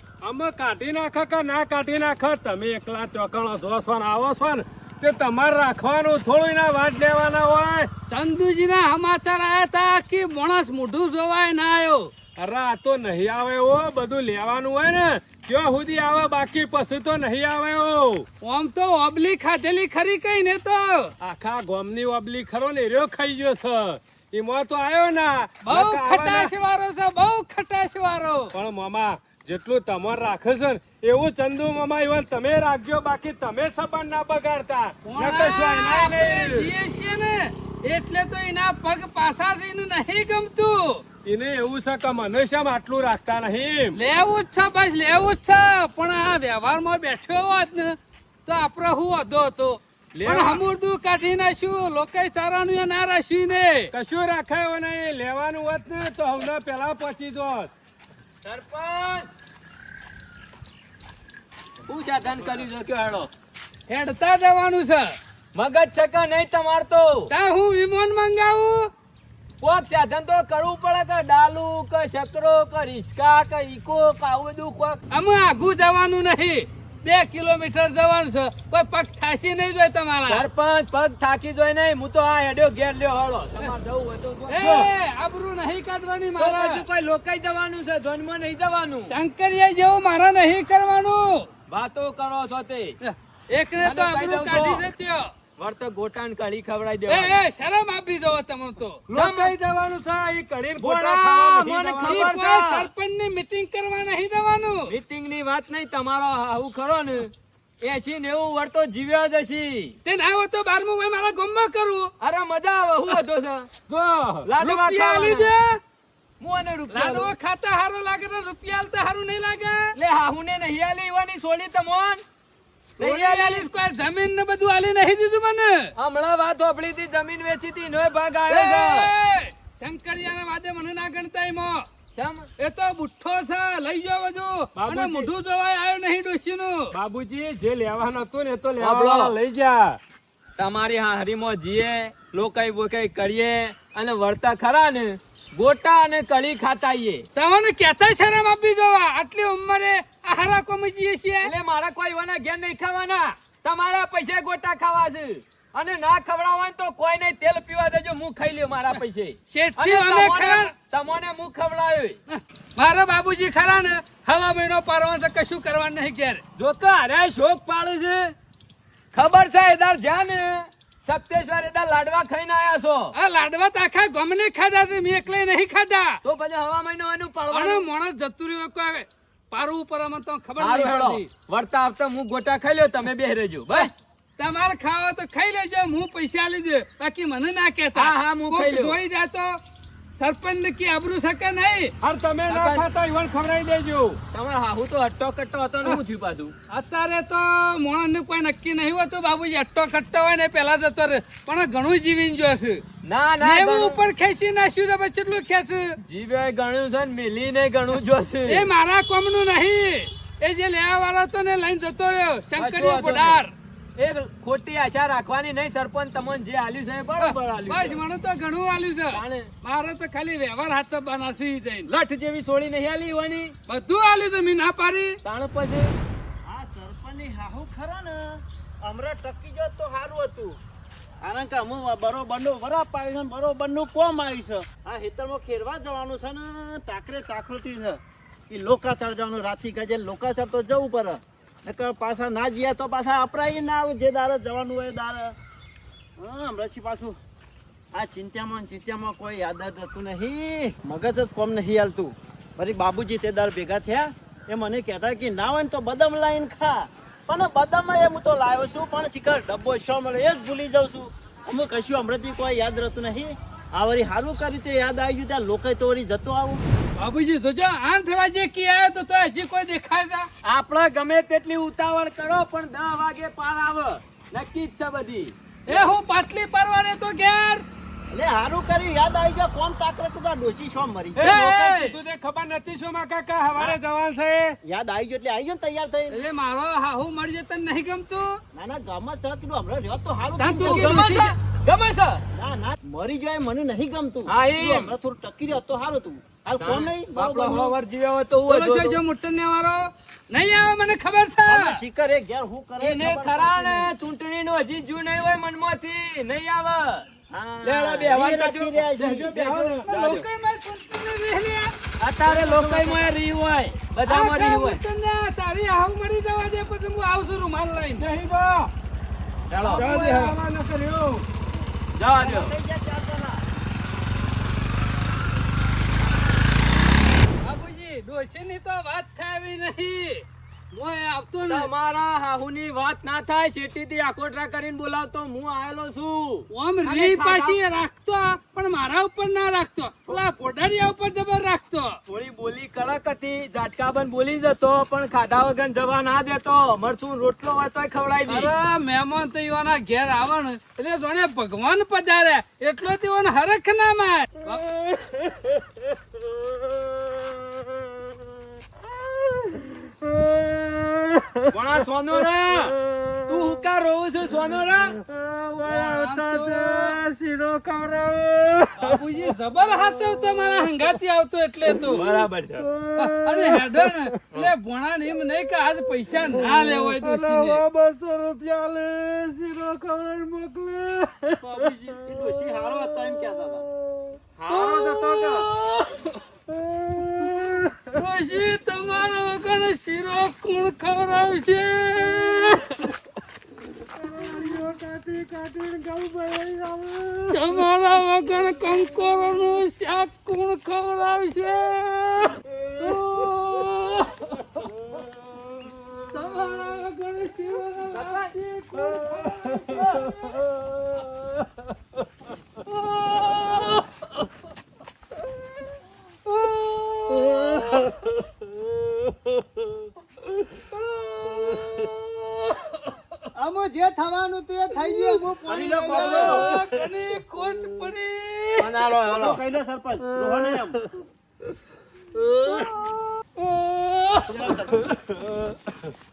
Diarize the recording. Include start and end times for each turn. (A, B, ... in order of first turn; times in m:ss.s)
0:00.2-0:07.9 A
0:08.1-0:12.1 B
0:12.4-0:18.2 A
0:18.4-0:21.1 B
0:21.2-0:26.5 A
0:25.6-0:28.5 B
0:28.5-0:36.7 A
0:35.0-0:41.0 B
0:41.2-0:44.0 A
0:43.9-0:47.9 B
0:48.4-0:53.9 B
0:50.1-0:50.6 A
0:53.9-0:57.7 A
0:58.4-0:59.3 C
1:01.9-1:03.3 C
1:03.9-1:05.1 B
1:05.6-1:07.3 C
1:07.3-1:08.9 B
1:09.6-1:15.0 C
1:15.1-1:20.4 B
1:20.3-1:24.9 C
1:24.5-1:26.8 B
1:26.4-1:29.1 C
1:29.1-1:31.5 B
1:31.7-1:33.0 C
1:33.0-1:35.3 B
1:33.8-1:34.8 C
1:35.6-1:37.4 C
1:37.1-1:39.0 B
1:39.1-1:42.4 A
1:39.1-1:39.6 C
1:40.8-1:42.9 C
1:42.0-1:44.9 B
1:44.9-1:49.9 C
1:50.0-1:52.1 B
1:52.2-1:53.7 C
1:53.9-1:54.5 A
1:54.4-1:55.5 C
1:54.6-1:55.8 B
1:56.4-1:57.3 C
1:56.9-2:00.0 B
2:00.0-2:02.2 C
2:03.0-2:03.7 C
2:03.0-2:05.9 B
2:06.0-2:09.1 C
2:08.5-2:11.9 B
2:12.2-2:12.5 C
2:12.6-2:16.9 B
2:14.8-2:15.3 A
2:16.9-2:20.0 A
2:18.8-2:19.3 C
2:20.6-2:27.3 C
2:27.3-2:31.5 B
2:31.4-2:42.2 C
2:39.5-2:40.7 B
2:42.3-2:46.4 B
2:46.6-2:48.3 C
2:49.1-2:53.1 C
2:53.2-2:56.2 B
2:56.2-2:57.8 C
2:57.5-3:01.3 B
3:00.6-3:03.9 C
3:03.7-3:09.6 B
3:08.0-3:09.0 C
3:10.2-3:11.9 B
3:12.0-3:14.2 A
3:12.5-3:12.8 C
3:14.3-3:16.5 C
3:16.7-3:22.8 B
3:23.0-3:24.0 C
3:23.4-3:26.0 B
3:26.0-3:28.7 C
3:28.5-3:33.5 B
3:32.6-3:33.4 C
3:34.0-3:38.0 C
3:37.2-3:41.9 B
3:39.1-3:39.5 C
3:41.9-3:43.5 C
3:43.7-3:45.2 B
3:45.2-3:45.9 C
3:46.4-3:50.6 D
3:51.2-4:05.4 D
4:06.2-4:07.2 D
4:07.9-4:26.6 D
4:27.0-4:30.3 B
4:30.4-4:35.3 C
4:35.7-4:37.6 B
4:38.1-4:41.4 D
4:41.2-4:44.6 A
4:41.2-4:42.0 B
4:44.6-4:46.2 D
4:46.1-4:48.4 B
4:48.5-4:51.2 D
4:50.4-4:51.4 B
4:50.6-4:52.2 C
4:52.3-4:57.8 D
4:54.3-4:54.9 C
4:56.6-4:59.0 C
4:58.5-5:01.8 B
5:01.5-5:03.9 D
5:02.8-5:07.1 C
5:07.3-5:09.9 D
5:07.6-5:09.2 C
5:08.9-5:09.8 A
5:09.9-5:11.7 B
5:09.9-5:10.2 C
5:12.0-5:14.8 C
5:12.2-5:13.1 A
5:14.1-5:18.1 B
5:18.0-5:18.7 A
5:19.5-5:19.9 C
5:19.7-5:21.2 A
5:19.7-5:20.4 B
5:21.9-5:22.6 C
5:22.2-5:23.4 D
5:27.4-5:31.7 B
5:31.5-5:37.6 C
5:36.5-5:42.0 B
5:42.1-5:48.5 C
5:48.3-5:54.6 B
5:54.7-5:55.6 A
5:59.1-6:03.6 A
6:01.5-6:02.8 C
6:03.3-6:05.0 C
6:04.9-6:10.2 A
6:05.6-6:07.0 B
6:08.8-6:12.1 B
6:11.7-6:14.4 A
6:11.9-6:12.7 C
6:13.0-6:17.6 B
6:16.0-6:24.2 A
6:21.4-6:22.0 B
6:22.0-6:23.6 D
6:24.4-6:25.4 C
6:24.5-6:26.2 B
6:26.5-6:28.0 A
6:27.9-6:32.9 B
6:34.0-6:35.8 A
6:35.8-6:37.3 E
6:37.3-6:44.6 B
6:44.9-6:46.0 A
6:46.1-6:50.5 B
6:47.9-6:48.3 C
6:48.9-6:50.1 A
6:52.6-6:54.1 B
6:56.2-6:58.1 B
7:00.6-7:02.9 B
7:03.4-7:06.5 E
7:05.5-7:06.4 D
7:05.9-7:08.7 B
7:06.5-7:06.8 A
7:08.6-7:09.4 C
7:09.1-7:10.8 D
7:10.2-7:10.7 A
7:12.5-7:14.6 B
7:14.3-7:15.0 D
7:15.2-7:15.5 A